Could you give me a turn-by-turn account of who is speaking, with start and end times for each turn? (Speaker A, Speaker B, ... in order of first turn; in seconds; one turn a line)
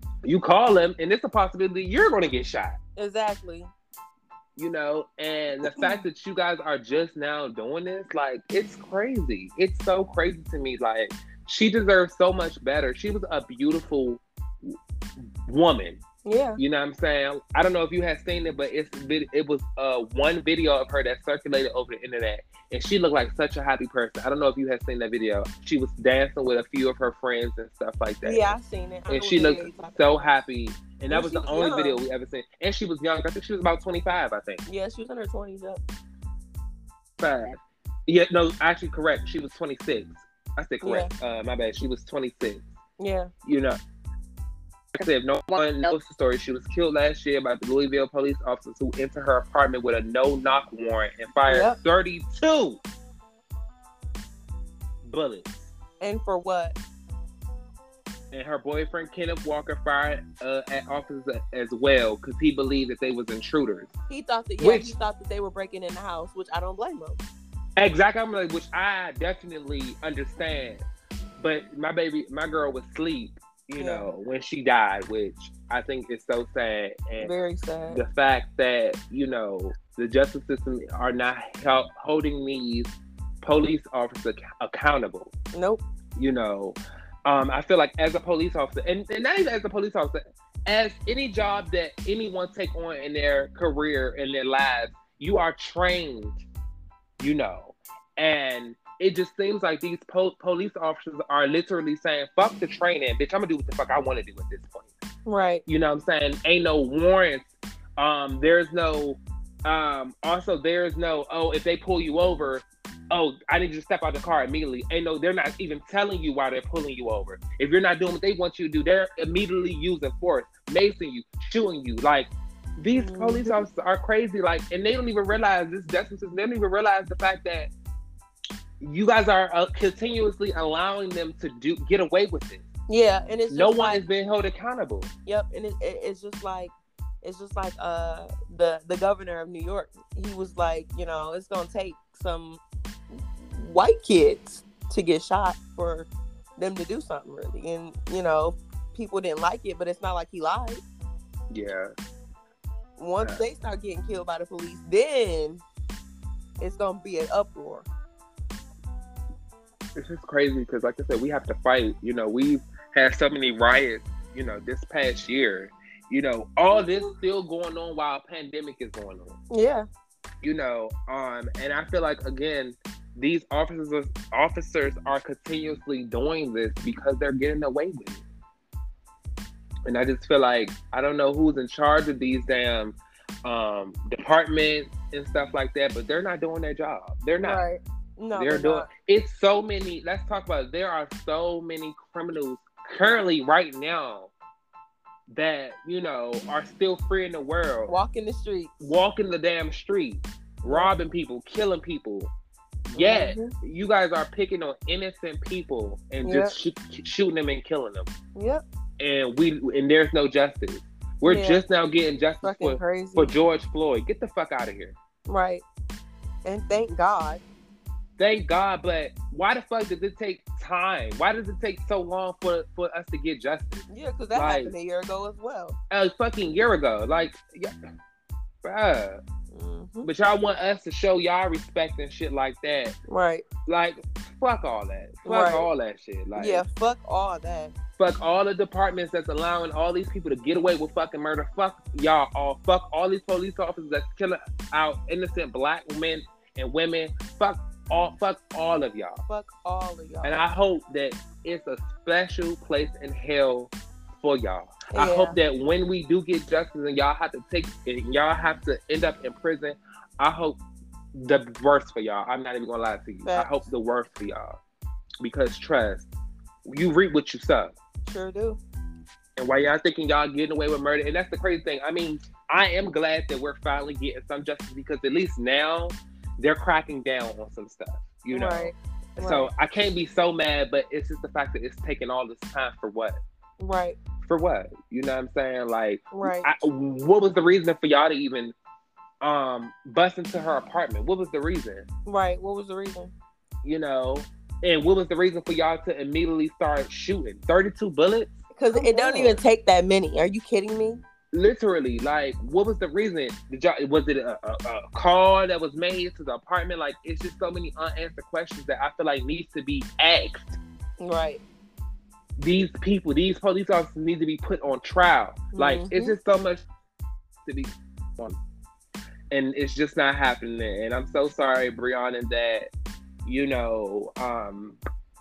Speaker A: 0.2-2.8
Speaker B: 3.0-3.7
Speaker A: 4.6-16.0
Speaker B: 5.6-6.0
Speaker B: 16.2-16.6
Speaker A: 16.6-28.6
Speaker B: 28.2-30.0
Speaker A: 29.1-34.6
Speaker B: 31.1-32.0
Speaker B: 34.7-35.8
Speaker A: 37.2-42.7
Speaker B: 40.8-41.1
Speaker B: 43.0-43.3
Speaker A: 43.5-43.8
Speaker A: 44.9-52.8
Speaker B: 51.5-51.8
Speaker A: 55.0-55.7
Speaker B: 56.0-56.8
Speaker A: 58.3-63.9
Speaker B: 64.1-67.2
Speaker A: 64.6-64.9
Speaker A: 67.8-70.8
Speaker A: 71.4-77.3
Speaker B: 73.8-74.1
Speaker B: 77.2-78.0
Speaker A: 77.9-85.3
Speaker B: 85.5-85.8
Speaker A: 86.2-96.4
Speaker A: 97.2-104.9
Speaker B: 105.3-105.6
Speaker A: 105.7-127.7
Speaker B: 123.0-123.6
Speaker A: 128.8-132.7
Speaker B: 132.9-134.0
Speaker A: 133.5-135.1
Speaker B: 135.3-150.8
Speaker A: 151.5-151.9
Speaker B: 153.0-155.6
Speaker B: 156.6-157.9
Speaker A: 160.0-169.4
Speaker B: 166.7-167.2
Speaker B: 169.5-169.9
Speaker A: 170.4-178.2
Speaker A: 179.9-187.7
Speaker B: 187.4-188.9
Speaker A: 188.3-194.3
Speaker A: 195.3-197.9
Speaker B: 197.9-198.9
Speaker A: 198.8-202.3
Speaker B: 200.7-200.9
Speaker A: 202.9-208.1
Speaker B: 203.0-203.5
Speaker B: 206.2-206.5
Speaker B: 208.3-208.6
Speaker A: 209.0-215.0
Speaker B: 211.3-211.6
Speaker B: 212.4-213.3
Speaker B: 215.3-215.6
Speaker B: 216.4-217.4
Speaker A: 218.2-224.7
Speaker B: 223.9-225.8
Speaker A: 225.9-227.7
Speaker A: 228.6-229.2
Speaker B: 229.5-230.1
Speaker A: 230.0-232.9
Speaker B: 233.1-233.5
Speaker A: 233.7-236.6
Speaker B: 235.2-235.7
Speaker B: 236.3-237.7
Speaker A: 238.0-249.2
Speaker B: 249.3-250.4
Speaker A: 250.2-260.6
Speaker B: 254.9-255.4
Speaker A: 261.1-264.6
Speaker B: 263.3-263.6
Speaker A: 265.2-266.1
Speaker A: 266.6-267.8
Speaker B: 268.1-268.6
Speaker A: 269.4-283.2
Speaker B: 278.3-279.5
Speaker B: 283.6-284.0
Speaker A: 284.2-288.6
Speaker B: 286.1-286.5
Speaker A: 289.2-291.9
Speaker B: 292.1-293.1
Speaker A: 293.6-299.4
Speaker B: 298.6-301.0
Speaker A: 301.3-310.6
Speaker B: 311.0-311.4
Speaker A: 312.4-316.7
Speaker B: 315.5-316.1
Speaker A: 317.4-318.4
Speaker A: 319.3-322.7
Speaker A: 323.2-324.8